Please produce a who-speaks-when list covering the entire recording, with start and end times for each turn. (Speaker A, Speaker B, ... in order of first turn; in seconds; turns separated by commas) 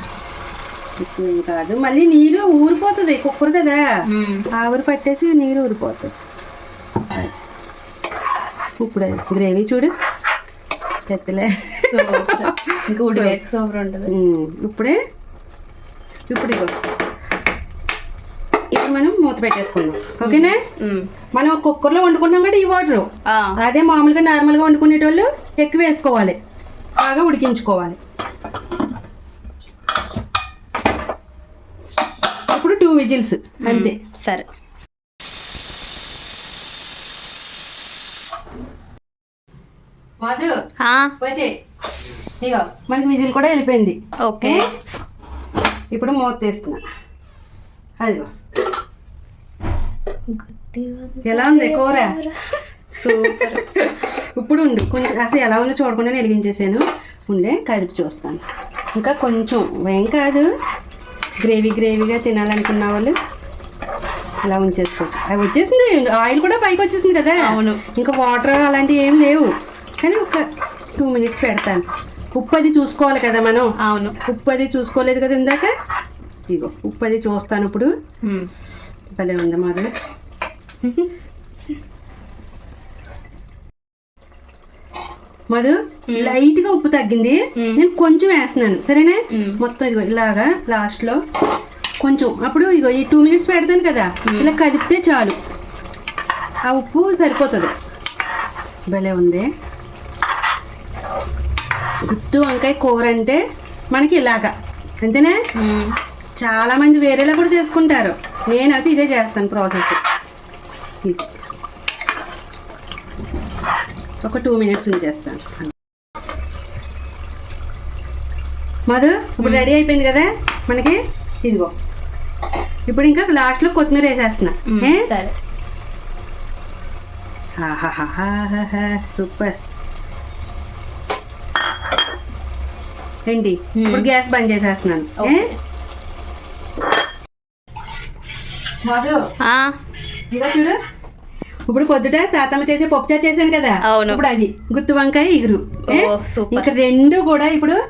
Speaker A: 1.0-3.8, Speaker B: 4.1-4.4, Speaker A: 4.6-6.1, Speaker A: 8.8-9.9, Speaker A: 11.1-13.4, Speaker B: 11.9-14.1, Speaker A: 14.1-14.9, Speaker A: 16.3-16.7, Speaker A: 18.7-20.6, Speaker B: 20.2-21.1, Speaker A: 21.4-23.1, Speaker B: 23.3-23.5, Speaker A: 23.6-26.4, Speaker A: 27.0-28.0, Speaker A: 32.5-34.0, Speaker B: 33.6-34.5, Speaker A: 40.2-40.5, Speaker B: 40.8-41.1, Speaker A: 41.2-41.5, Speaker A: 42.4-44.6, Speaker B: 44.3-44.6, Speaker A: 45.9-46.8, Speaker B: 50.3-52.4, Speaker A: 51.2-52.2, Speaker B: 53.0-53.6, Speaker A: 53.0-58.4, Speaker A: 59.0-60.5, Speaker A: 61.4-63.1, Speaker A: 64.4-70.4, Speaker B: 67.4-67.8, Speaker A: 71.0-71.8, Speaker A: 72.3-73.7, Speaker B: 73.8-74.2, Speaker A: 74.2-75.7, Speaker A: 76.5-77.9, Speaker B: 78.2-78.5, Speaker A: 79.1-79.9, Speaker A: 85.5-91.2, Speaker A: 92.0-95.3, Speaker B: 94.3-94.5, Speaker A: 96.7-97.7, Speaker A: 98.9-99.5, Speaker A: 102.0-103.4, Speaker A: 103.9-104.5, Speaker A: 105.0-105.4, Speaker B: 105.5-105.9, Speaker A: 106.4-110.0, Speaker A: 111.0-111.4, Speaker A: 114.2-115.7, Speaker A: 118.9-121.7, Speaker B: 119.4-119.7, Speaker A: 122.9-125.1, Speaker B: 124.7-125.3, Speaker A: 127.6-129.6, Speaker A: 133.3-135.5, Speaker B: 133.8-134.1, Speaker B: 135.2-135.5, Speaker A: 138.8-139.2, Speaker B: 139.4-139.7, Speaker A: 140.3-140.8, Speaker A: 141.7-147.8, Speaker B: 143.8-144.2, Speaker B: 145.9-146.7